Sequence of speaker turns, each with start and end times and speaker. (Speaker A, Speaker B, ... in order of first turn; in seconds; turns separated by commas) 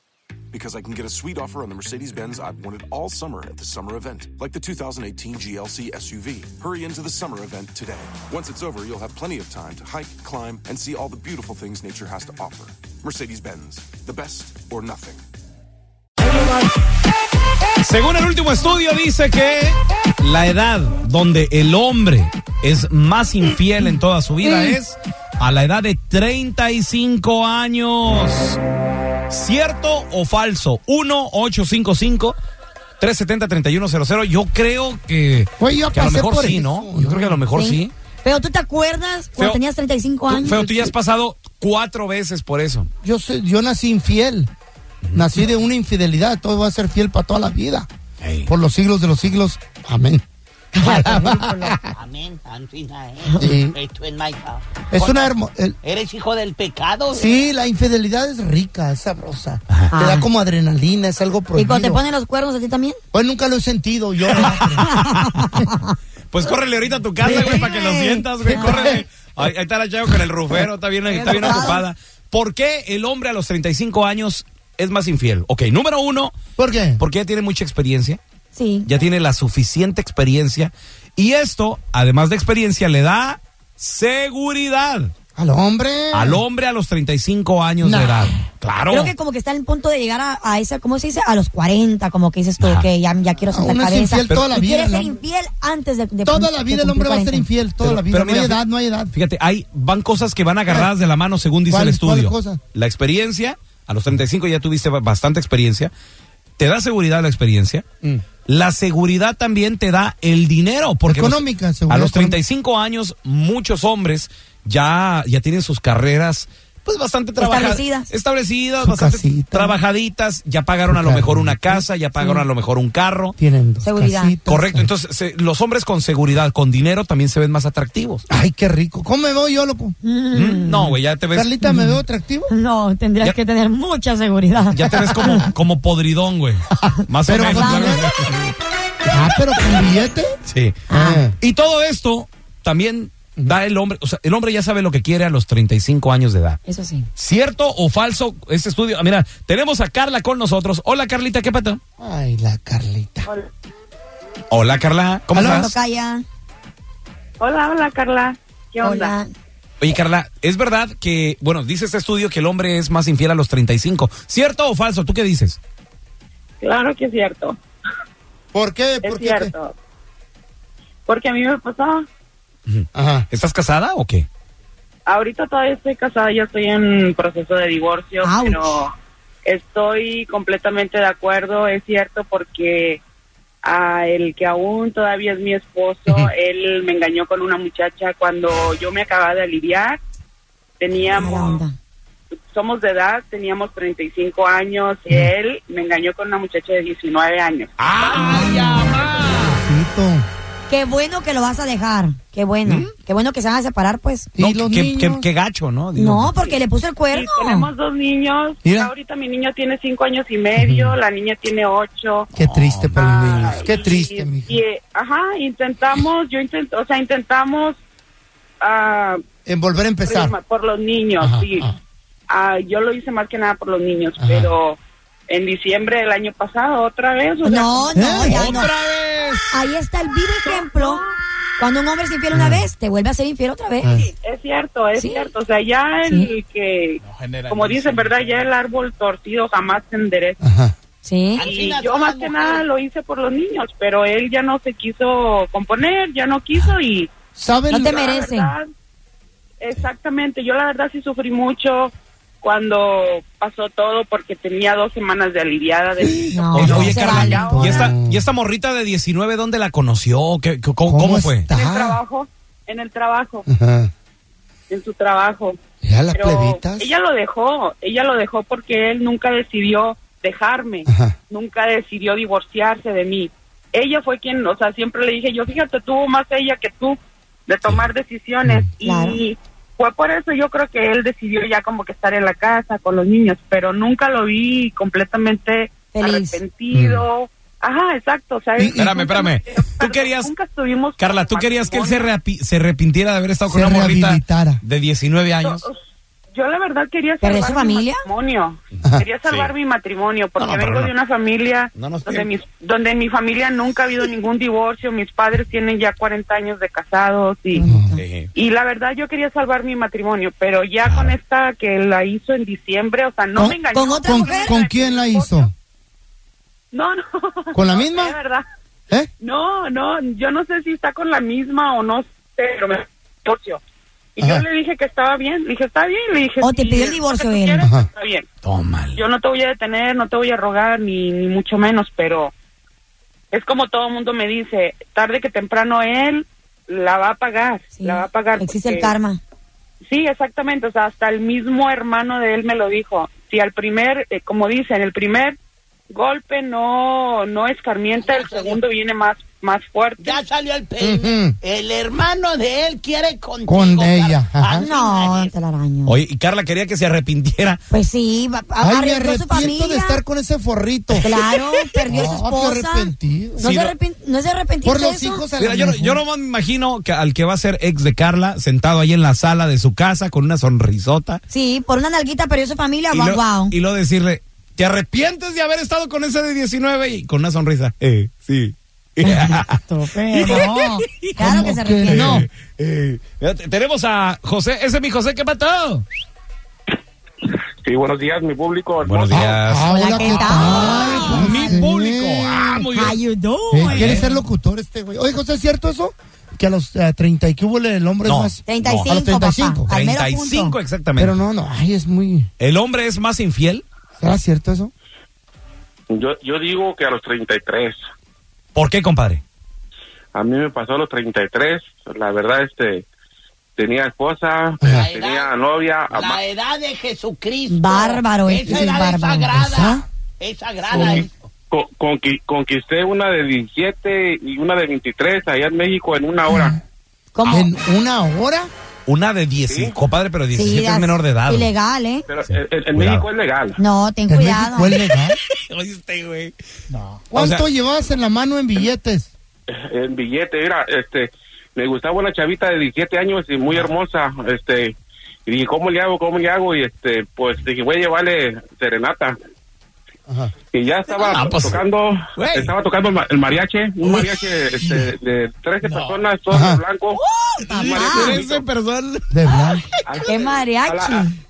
Speaker A: 0.5-15.2, Speaker B: 17.8-28.6, Speaker B: 29.3-32.4, Speaker B: 33.0-37.9, Speaker C: 35.6-37.4, Speaker D: 37.5-40.6, Speaker B: 40.3-42.9, Speaker C: 40.5-40.9, Speaker C: 43.0-44.5, Speaker B: 45.0-45.3, Speaker C: 45.1-47.9, Speaker B: 48.2-48.5, Speaker C: 48.5-50.2, Speaker D: 50.8-51.7, Speaker C: 50.8-51.9, Speaker E: 52.0-55.3, Speaker D: 53.3-53.5, Speaker C: 53.4-53.8, Speaker C: 54.9-55.8, Speaker E: 55.8-57.3, Speaker C: 57.1-62.0, Speaker D: 59.9-60.2, Speaker D: 61.6-63.0, Speaker C: 63.1-64.9, Speaker B: 64.4-65.1, Speaker D: 64.9-65.9, Speaker B: 66.3-76.3, Speaker D: 67.2-69.0, Speaker C: 67.2-67.7, Speaker C: 68.6-69.0, Speaker D: 71.1-71.8, Speaker C: 71.2-71.8, Speaker C: 76.6-77.0, Speaker B: 77.0-78.2, Speaker D: 78.5-78.9, Speaker B: 78.8-85.1, Speaker C: 85.4-86.4, Speaker B: 86.1-89.1, Speaker C: 87.8-88.4, Speaker D: 88.9-97.5, Speaker B: 92.6-92.9, Speaker C: 93.5-95.2, Speaker C: 96.2-99.1, Speaker B: 97.8-105.9, Speaker C: 101.7-102.6, Speaker B: 106.6-107.8, Speaker B: 108.5-123.4, Speaker C: 111.1-112.4, Speaker D: 117.4-118.1, Speaker C: 118.8-119.8, Speaker C: 120.9-121.8, Speaker C: 123.4-124.9, Speaker D: 123.8-124.3, Speaker B: 124.5-128.2, Speaker C: 128.3-129.9, Speaker D: 130.0-131.0, Speaker B: 130.3-131.6, Speaker C: 131.3-132.5, Speaker D: 131.6-132.0, Speaker D: 132.5-135.5, Speaker B: 134.7-138.5, Speaker C: 137.2-138.1, Speaker D: 137.3-138.0, Speaker C: 139.1-140.4, Speaker B: 140.5-140.8, Speaker C: 140.9-141.4, Speaker D: 140.9-141.2, Speaker B: 141.4-146.6, Speaker D: 146.7-147.1, Speaker B: 147.2-151.8, Speaker C: 152.0-153.3, Speaker B: 154.5-155.8, Speaker C: 155.3-155.8, Speaker D: 155.4-156.2, Speaker F: 157.4-159.2, Speaker D: 158.8-159.3, Speaker B: 159.8-165.6, Speaker F: 166.6-167.6, Speaker C: 168.5-169.5, Speaker F: 169.0-169.8, Speaker F: 171.1-172.1, Speaker B: 172.7-174.3, Speaker C: 172.9-173.3, Speaker F: 175.1-178.9, Speaker D: 178.2-178.8, Speaker F: 179.4-183.0, Speaker F: 183.6-190.0, Speaker F: 190.8-191.6, Speaker D: 191.2-191.7, Speaker F: 192.5-197.7, Speaker B: 197.8-199.6, Speaker C: 198.3-200.3, Speaker D: 200.7-204.3, Speaker B: 202.7-202.9, Speaker C: 204.3-205.3, Speaker B: 204.4-206.3, Speaker D: 205.9-207.7, Speaker F: 206.4-212.3, Speaker C: 208.6-208.9, Speaker C: 210.6-211.0, Speaker C: 212.3-214.6, Speaker B: 212.4-213.5, Speaker F: 212.9-217.8, Speaker F: 218.6-219.2, Speaker C: 219.4-220.4, Speaker F: 220.0-221.7, Speaker C: 221.2-221.8, Speaker F: 222.3-228.2, Speaker C: 224.2-224.5, Speaker D: 227.4-228.7, Speaker C: 227.9-228.5, Speaker B: 228.3-229.6, Speaker D: 229.5-231.0, Speaker F: 230.4-231.1, Speaker D: 231.6-234.0, Speaker C: 232.3-232.7, Speaker C: 233.8-234.1, Speaker F: 234.2-240.4, Speaker D: 235.0-235.3, Speaker B: 237.1-238.5, Speaker C: 240.4-240.7, Speaker D: 241.0-241.4, Speaker F: 241.4-247.1, Speaker E: 241.5-242.4, Speaker C: 247.4-247.9, Speaker D: 247.7-248.6, Speaker F: 247.7-248.7, Speaker F: 249.6-257.9, Speaker C: 256.0-258.3, Speaker D: 256.3-257.4, Speaker B: 256.5-261.5, Speaker C: 260.9-262.0, Speaker F: 261.5-263.5, Speaker C: 263.5-263.9, Speaker F: 264.7-265.6, Speaker C: 265.8-266.9, Speaker F: 266.1-292.1, Speaker C: 270.9-271.2, Speaker D: 278.8-279.2, Speaker D: 285.9-286.4, Speaker C: 286.7-287.1, Speaker C: 288.6-289.0, Speaker B: 288.8-290.3, Speaker B: 291.0-295.7, Speaker C: 293.5-294.6, Speaker F: 295.4-307.6, Speaker D: 297.2-298.0, Speaker B: 298.8-299.5, Speaker B: 300.4-300.9, Speaker B: 301.8-302.3, Speaker D: 307.6-308.0, Speaker C: 307.6-308.0, Speaker B: 307.9-308.3, Speaker F: 308.3-315.5, Speaker B: 310.9-311.1, Speaker C: 313.4-315.5, Speaker D: 313.7-314.6, Speaker F: 316.7-318.5, Speaker C: 317.5-318.2, Speaker F: 319.2-323.6, Speaker F: 324.2-328.3, Speaker C: 324.2-324.5, Speaker D: 326.4-327.6, Speaker C: 327.6-327.9, Speaker B: 328.4-329.0, Speaker F: 328.9-332.3, Speaker F: 333.3-338.9, Speaker D: 337.8-339.2, Speaker F: 339.8-345.4, Speaker F: 345.9-350.2, Speaker E: 348.2-348.6, Speaker E: 350.1-355.3, Speaker C: 350.8-351.4, Speaker C: 353.5-354.7, Speaker D: 354.6-356.0, Speaker B: 355.9-357.6, Speaker D: 357.7-360.0, Speaker C: 358.6-361.1, Speaker D: 361.0-365.2, Speaker C: 361.9-363.5, Speaker B: 363.4-363.8, Speaker C: 364.6-366.0, Speaker B: 365.4-371.2, Speaker D: 371.3-373.6, Speaker B: 372.9-379.6, Speaker D: 379.0-382.3, Speaker B: 380.1-385.9, Speaker C: 381.2-382.3, Speaker G: 387.6-389.3, Speaker B: 388.8-393.0, Speaker C: 389.1-392.7, Speaker D: 389.7-391.6, Speaker D: 392.7-394.1, Speaker C: 393.5-399.7, Speaker B: 393.7-394.1, Speaker B: 398.1-398.9, Speaker D: 398.5-400.6, Speaker B: 399.7-401.2, Speaker C: 401.0-402.3, Speaker B: 402.4-403.6, Speaker C: 404.0-404.7, Speaker G: 405.9-407.8, Speaker B: 408.6-409.2, Speaker G: 410.1-412.9, Speaker G: 413.6-416.2, Speaker C: 414.6-414.9, Speaker E: 414.7-415.2, Speaker E: 415.9-421.1, Speaker D: 417.5-419.3, Speaker C: 418.4-419.9, Speaker G: 420.7-426.6, Speaker C: 426.3-426.6, Speaker D: 427.1-427.5, Speaker C: 427.3-428.5, Speaker B: 428.9-431.5, Speaker G: 429.4-429.8, Speaker D: 430.3-432.1, Speaker G: 432.1-433.6, Speaker B: 432.3-433.1, Speaker D: 433.6-434.8, Speaker C: 434.1-435.2, Speaker B: 435.3-436.4, Speaker C: 437.1-439.1, Speaker B: 437.1-437.4, Speaker G: 439.5-449.1, Speaker C: 450.1-450.3, Speaker G: 450.5-457.0, Speaker B: 450.9-451.6, Speaker B: 452.2-452.5, Speaker B: 453.8-454.9, Speaker B: 455.6-456.0, Speaker C: 456.3-456.6, Speaker D: 457.0-458.2, Speaker B: 457.4-459.2, Speaker G: 457.5-458.5, Speaker C: 459.1-459.6, Speaker G: 459.9-461.1, Speaker D: 460.0-461.1